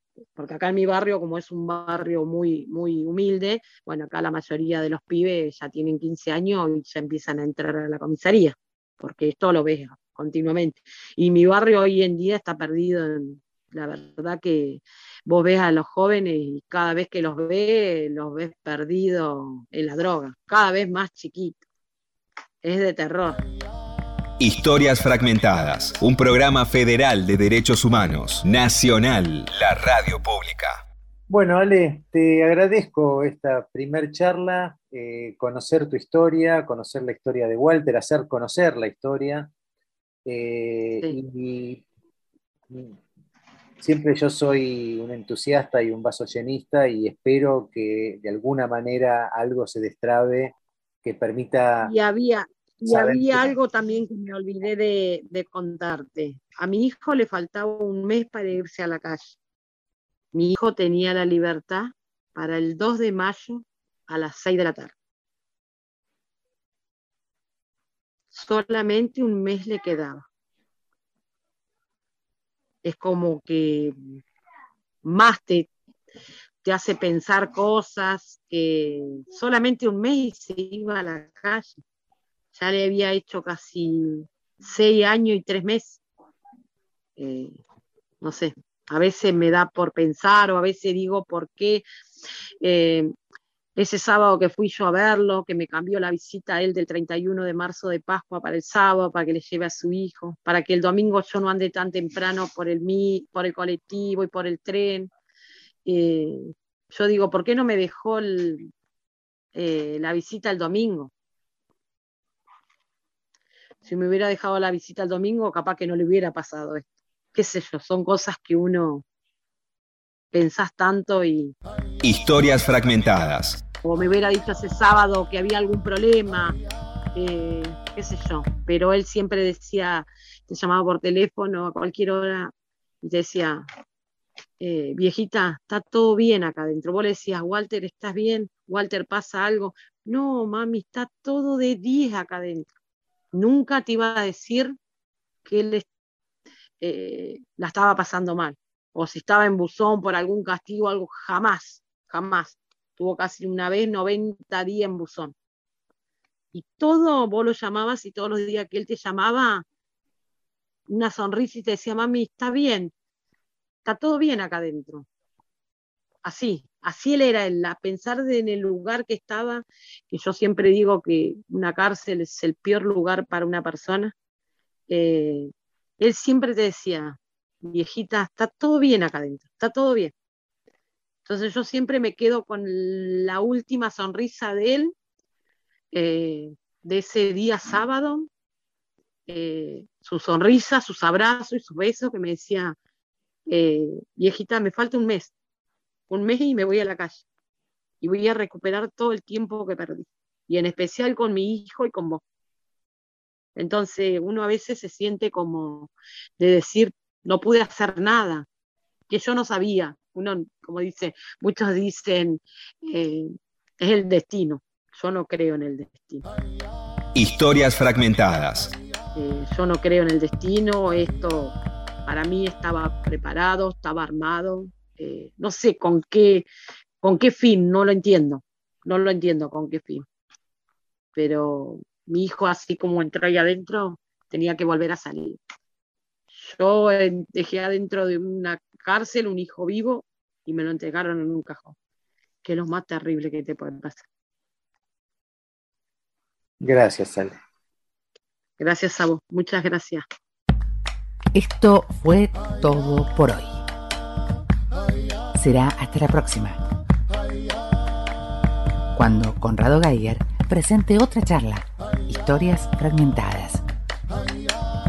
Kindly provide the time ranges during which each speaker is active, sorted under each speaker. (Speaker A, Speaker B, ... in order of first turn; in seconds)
Speaker A: 0.4-21.6, 22.6-23.4, 51.8-59.4, 60.3-64.9, 68.3-70.3, 72.8-74.0, 75.0-75.7, 76.6-81.8, 82.5-86.0, 87.2-87.6, 88.2-91.8, 92.6-93.1, 93.8-105.1, 105.8-108.7, 109.5-111.1, 113.8-119.0, 120.3-121.5, 123.8-126.6, 127.2-133.6, 134.6-142.7, 143.3-144.8, 145.4-145.9, 146.8-155.3, 156.5-159.7, 160.9-162.9, 163.8-165.1, 166.2-174.1, 174.9-180.1, 181.2-184.9, 185.9-188.3, 189.3-192.8, 193.5-195.3, 196.1-197.2, 198.0-202.2, 203.6-208.5, 209.1-216.2, 219.2-226.5, 227.0-230.1, 231.2-235.4, 236.3-241.8, 242.4-244.1, 248.6-250.0
Speaker B: 24.4-30.8, 122.0-123.6, 217.1-218.7
Speaker C: 31.3-39.5, 40.3-41.8, 42.7-43.0, 43.8-51.9, 52.8-53.5, 246.6-247.4
Speaker D: 251.3-253.6, 255.3-256.6, 258.9-263.6